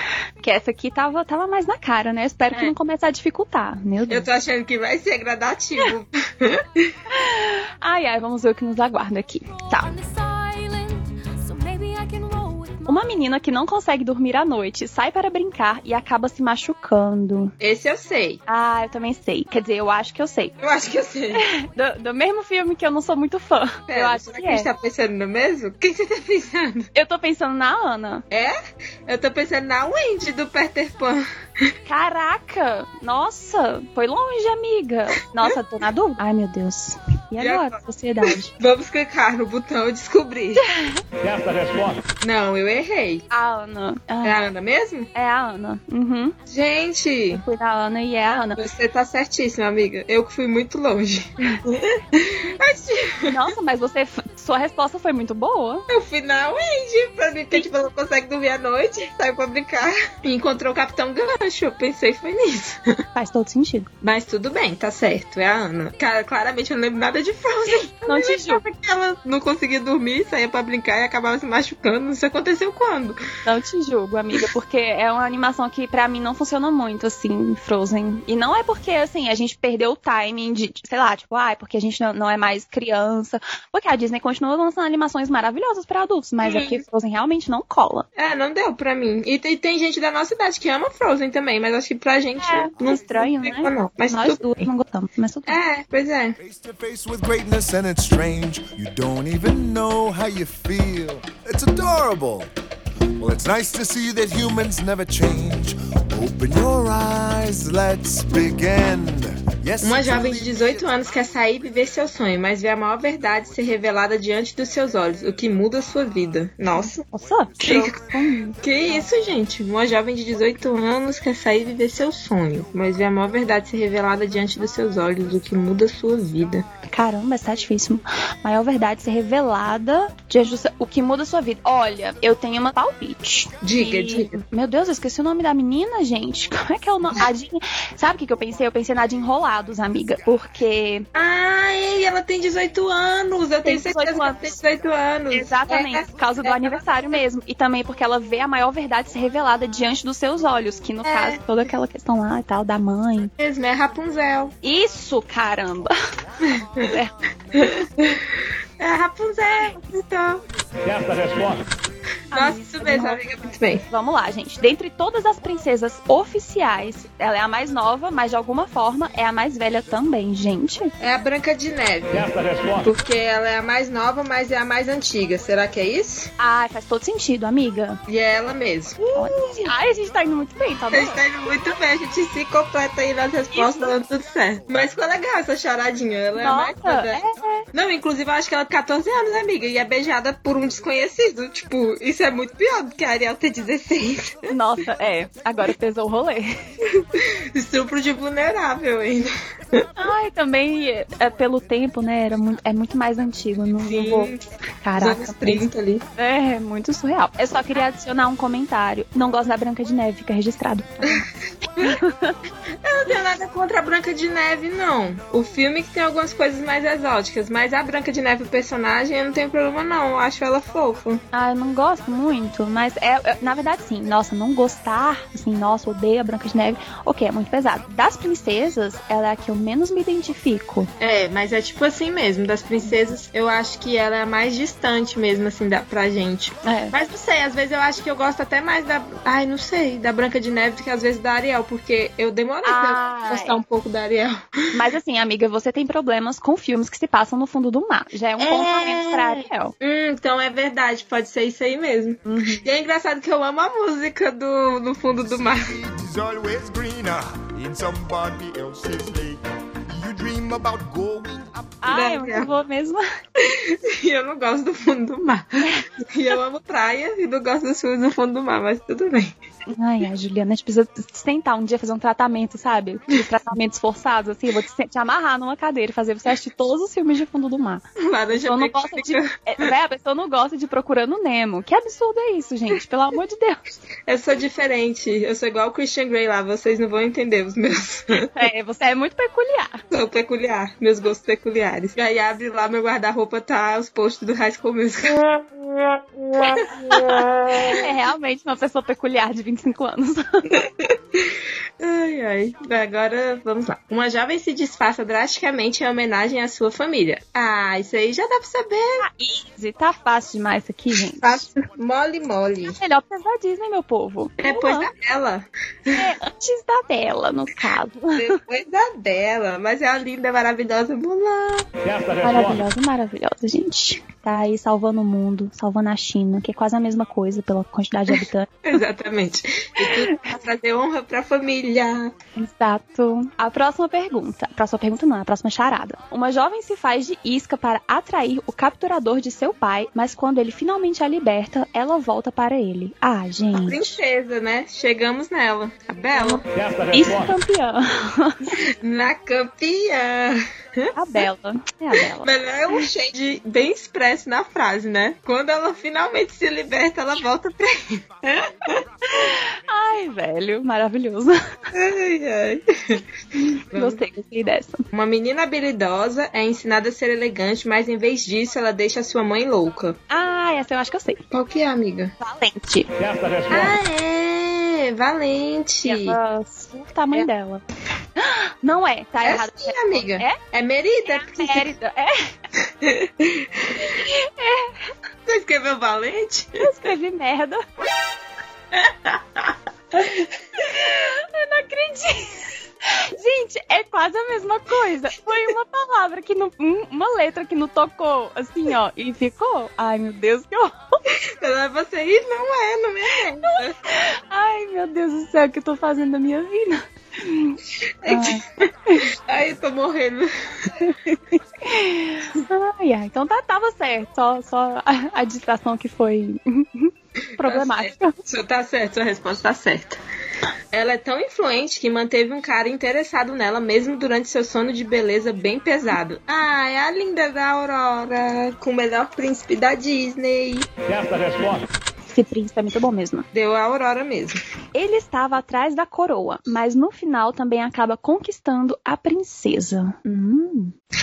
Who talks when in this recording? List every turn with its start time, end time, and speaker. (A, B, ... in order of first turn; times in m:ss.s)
0:00.4-0:04.3 A
0:04.1-0:07.0 B
0:07.1-0:09.9 A
0:09.6-0:13.2 C
0:12.9-0:17.5 A
0:17.6-0:18.4 B
0:18.5-0:20.5 A
0:20.6-0:21.4 B
0:21.4-0:24.7 A
0:23.9-0:26.9 B
0:27.0-0:28.2 A
0:28.3-0:28.6 B
0:29.1-0:31.7 B
0:31.9-0:38.5 A
0:37.4-0:40.7 B
0:40.6-0:41.0 A
0:41.2-0:42.0 D
0:42.2-0:43.2 B
0:43.3-0:44.4 A
0:44.2-0:45.1 B
0:45.2-0:46.4 A
0:46.5-0:47.4 B
0:47.3-0:48.6 A
0:48.6-0:53.4 B
0:53.3-0:55.9 A
0:55.9-1:02.9 B
1:03.2-1:03.9 A
1:04.0-1:13.2 B
1:08.1-1:08.6 A
1:13.5-1:28.0 A
1:26.4-1:26.8 B
1:28.2-1:34.7 B
1:32.4-1:35.6 A
1:35.5-1:36.4 B
1:36.4-1:42.5 E
1:43.2-1:50.8 E
1:49.8-1:57.0 B
1:56.7-1:59.0 A
1:57.6-1:58.0 B
1:58.6-2:06.7 B
2:06.9-2:21.1 A
2:13.6-2:14.4 B
2:21.2-2:27.2 B
2:23.6-2:24.6 A
2:25.3-2:33.3 A
2:31.0-2:31.4 B
2:33.4-2:34.6 B
2:34.6-2:35.9 A
2:36.4-2:37.0 B
2:36.8-2:37.1 A
2:37.5-2:38.2 B
2:38.8-2:40.4 B
2:40.8-2:41.6 D
2:42.3-2:43.2 A
2:42.3-2:43.9 B
2:43.9-2:50.9 A
2:51.0-2:56.3 B
2:52.2-2:52.8 D
2:56.4-2:58.0 A
2:58.1-2:59.7 B
2:59.1-3:01.2 A
3:00.9-3:07.2 B
3:03.5-3:03.9 A
3:06.4-3:07.6 A
3:07.7-3:14.5 B
3:14.5-3:16.5 A
3:17.0-3:19.9 B
3:20.0-3:31.3 A
3:23.8-3:24.4 B
3:25.0-3:26.0 B
3:31.8-3:32.4 A
3:32.8-3:41.2 B
3:41.3-3:50.9 A
3:51.0-4:04.4 B
3:56.6-3:56.9 A
4:02.6-4:03.6 A
4:04.7-4:09.7 A
4:08.4-4:15.7 B
4:12.3-4:12.6 A
4:15.4-4:21.8 E
4:21.8-4:23.0 A
4:21.9-4:22.5 B
4:23.4-4:29.3 B
4:25.6-4:25.9 A
4:29.7-4:43.6 A
4:38.0-4:39.7 B
4:44.1-4:48.3 B
4:48.4-4:49.8 A
4:49.9-4:55.2 B
4:56.4-4:57.8 B
4:56.9-5:00.5 A
5:00.5-5:09.0 B
5:09.0-5:11.5 A
5:11.1-5:12.8 B
5:12.7-5:14.9 A
5:14.4-5:16.1 B
5:15.9-5:18.4 A
5:18.2-5:21.7 B
5:21.9-5:22.2 D
5:22.2-5:28.6 A
5:28.1-5:32.1 B
5:29.8-5:30.4 A
5:32.4-5:44.0 A
5:43.5-5:46.4 B
5:46.2-5:48.6 A
5:46.6-5:46.9 D
5:48.6-5:50.9 B
5:51.0-5:52.9 A
5:52.2-5:58.8 B
5:59.0-6:01.4 A
6:01.7-6:03.0 B
6:03.4-6:04.8 A
6:03.7-6:04.0 B
6:04.9-6:10.0 B
6:10.1-6:11.2 A
6:11.3-6:12.1 B
6:12.2-6:13.0 A
6:13.5-6:16.2 B
6:15.9-6:17.6 A
6:18.2-6:20.4 A
6:19.2-6:21.7 B
6:21.0-6:22.3 A
6:22.8-6:24.0 B
6:23.8-6:24.9 A
6:25.3-6:26.6 B
6:26.6-6:27.6 A
6:28.7-6:29.5 B
6:29.9-6:41.0 A
6:41.4-6:43.8 B
6:43.1-6:49.0 A
6:48.0-6:48.7 B
6:49.3-6:50.3 B
6:50.8-6:58.2 A
6:57.4-7:00.0 B
7:00.7-7:10.7 B
7:10.9-7:11.6 D
7:12.1-7:13.2 A
7:13.3-7:14.4 B
7:14.8-7:20.7 A